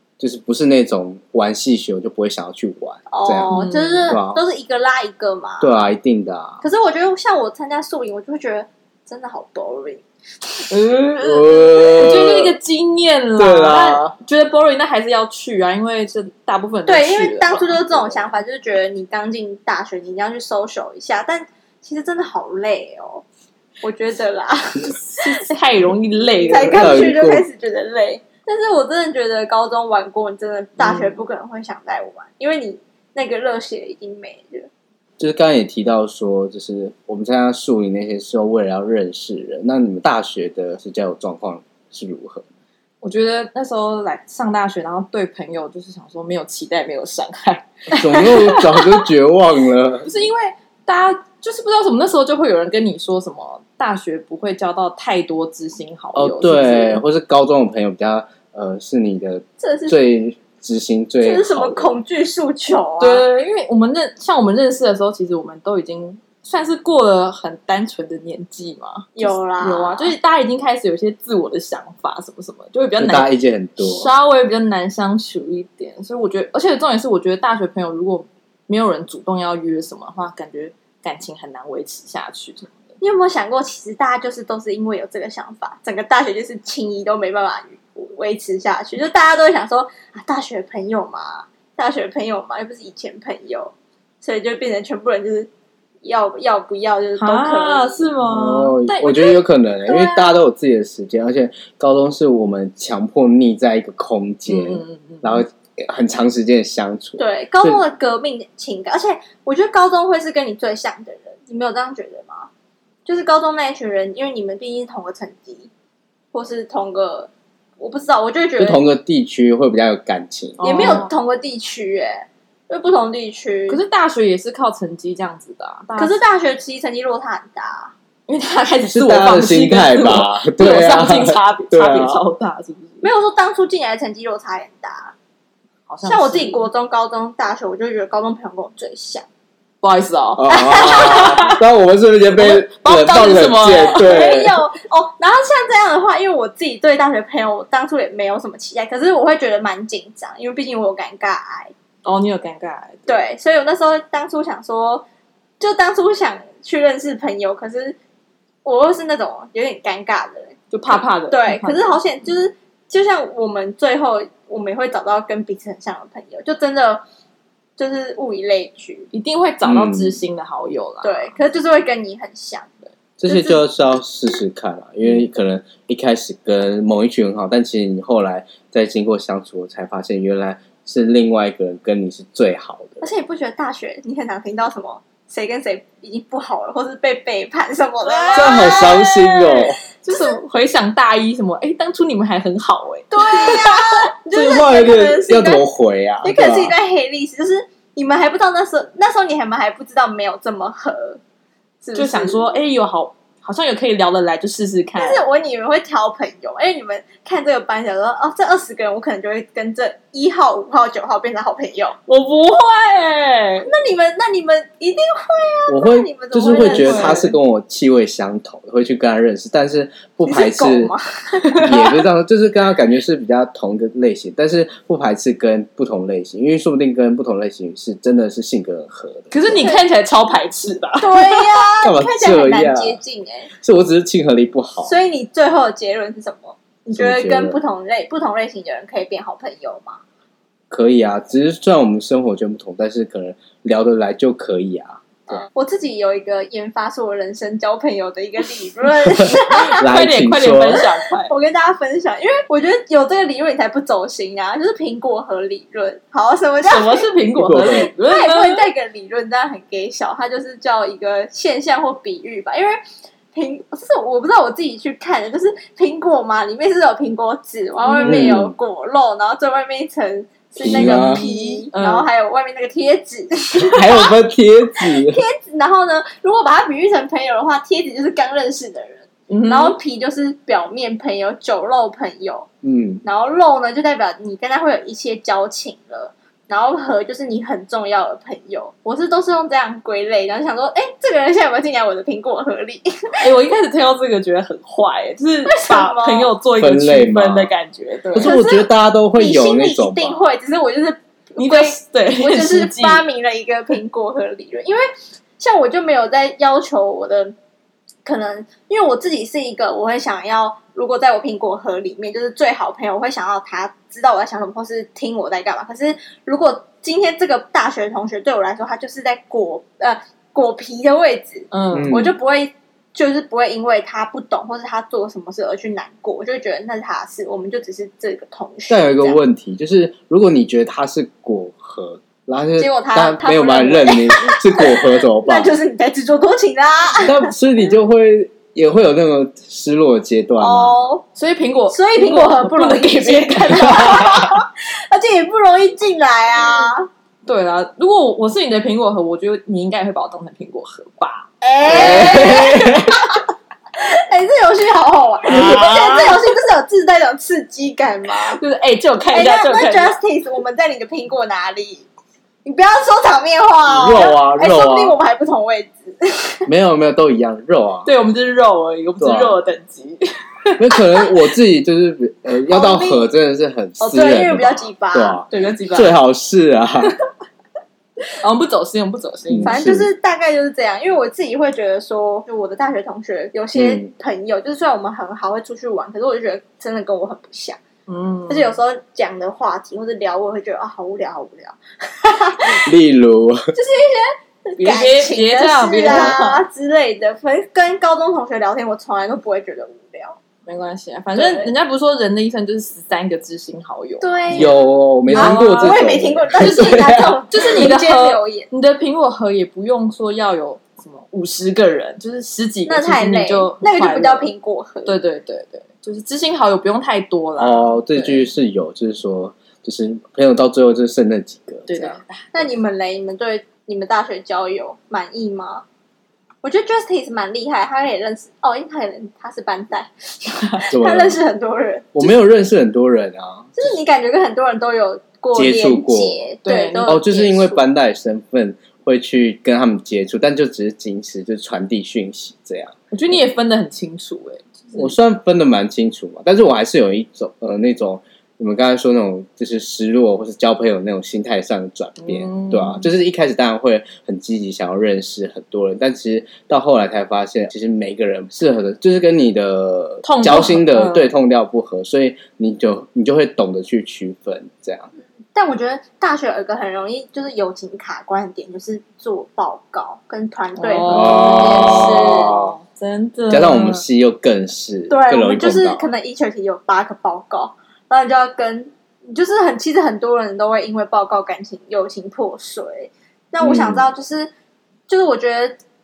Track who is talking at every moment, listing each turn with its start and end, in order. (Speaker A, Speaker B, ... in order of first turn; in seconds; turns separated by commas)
Speaker A: 0.2-3.6, Speaker B: 3.1-5.8, Speaker C: 3.5-4.2, Speaker A: 4.1-4.4, Speaker A: 5.6-6.6, Speaker B: 6.6-10.0, Speaker C: 10.7-18.2, Speaker A: 11.2-12.6, Speaker A: 13.4-14.1, Speaker B: 16.9-23.2, Speaker B: 23.8-25.4, Speaker C: 25.0-27.1, Speaker B: 26.4-34.7, Speaker A: 26.7-27.4, Speaker A: 35.2-42.4, Speaker C: 43.0-49.1, Speaker A: 47.9-50.1, Speaker C: 50.0-57.0, Speaker A: 56.1-62.0, Speaker B: 59.6-60.0, Speaker B: 61.2-63.3, Speaker C: 63.0-83.0, Speaker B: 69.2-70.1, Speaker A: 73.0-74.1, Speaker B: 83.0-95.5, Speaker B: 96.0-98.1, Speaker C: 97.2-99.4, Speaker A: 98.2-107.8, Speaker B: 99.9-100.3, Speaker C: 104.5-105.4, Speaker B: 107.2-112.5, Speaker B: 113.1-115.7, Speaker B: 116.3-118.8, Speaker A: 118.6-121.0, Speaker C: 120.6-121.1, Speaker B: 120.6-123.8, Speaker C: 123.7-126.2, Speaker B: 126.0-127.9, Speaker C: 128.3-133.1, Speaker A: 128.9-132.2, Speaker B: 133.0-135.1, Speaker C: 135.9-136.7, Speaker B: 136.0-139.3, Speaker C: 139.8-141.6, Speaker A: 140.4-144.6, Speaker B: 140.5-141.5, Speaker C: 142.4-144.3, Speaker B: 143.9-151.7, Speaker C: 152.0-153.2, Speaker B: 153.1-155.1, Speaker B: 155.6-157.9, Speaker B: 158.6-167.0, Speaker C: 160.7-162.0, Speaker B: 167.8-169.1, Speaker C: 169.1-171.4, Speaker A: 169.6-170.2, Speaker B: 171.0-172.8, Speaker A: 173.2-183.1, Speaker B: 173.3-173.6, Speaker B: 183.0-188.9, Speaker C: 188.1-194.1, Speaker A: 188.3-189.8, Speaker B: 193.1-195.6, Speaker A: 194.3-196.7, Speaker B: 196.2-201.2, Speaker B: 201.8-202.5, Speaker C: 201.9-205.2, Speaker B: 205.0-212.0, Speaker C: 212.1-213.7, Speaker B: 213.7-217.2, Speaker A: 215.7-220.9, Speaker C: 216.5-217.4, Speaker B: 220.2-221.9, Speaker A: 221.6-229.6, Speaker C: 229.3-231.6, Speaker B: 229.5-229.8, Speaker B: 231.0-233.5, Speaker A: 231.8-233.0, Speaker A: 233.6-234.9, Speaker B: 234.8-240.0, Speaker A: 236.9-237.6, Speaker A: 240.7-245.4, Speaker B: 245.3-249.8, Speaker A: 249.2-250.8, Speaker C: 249.5-251.3, Speaker B: 251.3-257.1, Speaker C: 256.6-258.7, Speaker A: 257.4-257.9, Speaker B: 257.6-262.8, Speaker B: 263.3-274.1, Speaker C: 267.9-268.3, Speaker A: 268.0-268.5, Speaker A: 270.6-271.2, Speaker C: 270.6-272.1, Speaker A: 273.6-275.2, Speaker B: 274.8-282.5, Speaker C: 279.3-279.8, Speaker A: 282.6-283.0, Speaker B: 283.0-293.2, Speaker C: 293.2-298.4, Speaker B: 295.4-296.3, Speaker A: 296.6-297.5, Speaker A: 298.1-300.2, Speaker B: 298.2-304.9, Speaker C: 301.4-303.1, Speaker B: 305.4-307.4, Speaker B: 308.1-329.2, Speaker C: 321.5-321.9, Speaker A: 321.7-322.1, Speaker A: 328.7-335.6, Speaker B: 332.6-337.3, Speaker A: 337.0-340.9, Speaker B: 340.4-341.0, Speaker C: 341.1-344.2, Speaker B: 341.7-346.9, Speaker C: 347.3-352.5, Speaker B: 351.4-353.2, Speaker A: 351.6-353.1, Speaker B: 353.8-358.4, Speaker C: 355.3-356.3, Speaker C: 358.3-360.0, Speaker B: 359.1-361.9, Speaker B: 362.4-366.5, Speaker A: 363.6-365.0, Speaker A: 366.5-367.9, Speaker C: 367.9-371.1, Speaker A: 369.0-369.4, Speaker A: 370.6-376.9, Speaker B: 372.5-373.1, Speaker B: 373.8-375.2, Speaker C: 373.9-374.2, Speaker C: 375.3-375.9, Speaker C: 378.2-379.6, Speaker A: 379.3-379.9, Speaker B: 379.4-387.6, Speaker A: 383.6-383.9, Speaker C: 387.9-388.6, Speaker B: 388.3-392.7, Speaker A: 392.5-393.4, Speaker B: 393.6-400.2, Speaker C: 394.6-396.5, Speaker A: 395.9-396.1, Speaker C: 400.4-404.5, Speaker B: 401.1-401.5, Speaker B: 404.0-404.6, Speaker A: 404.3-407.6, Speaker C: 405.1-405.8, Speaker B: 405.1-408.5, Speaker C: 406.4-414.3, Speaker B: 412.6-414.9, Speaker C: 414.9-418.3, Speaker A: 417.4-422.0, Speaker C: 421.7-422.5, Speaker B: 422.3-425.6, Speaker B: 426.4-432.2, Speaker A: 430.7-431.2, Speaker A: 431.9-433.7, Speaker B: 433.6-437.6, Speaker A: 435.3-436.3, Speaker C: 436.4-437.0, Speaker A: 436.9-443.2, Speaker C: 442.9-444.9, Speaker A: 444.8-464.9, Speaker C: 452.0-452.9, Speaker C: 460.0-461.1, Speaker B: 465.4-472.4, Speaker C: 470.6-473.8, Speaker A: 470.9-472.6, Speaker A: 473.3-475.9, Speaker B: 474.9-484.3, Speaker A: 483.4-483.9, Speaker B: 484.9-485.6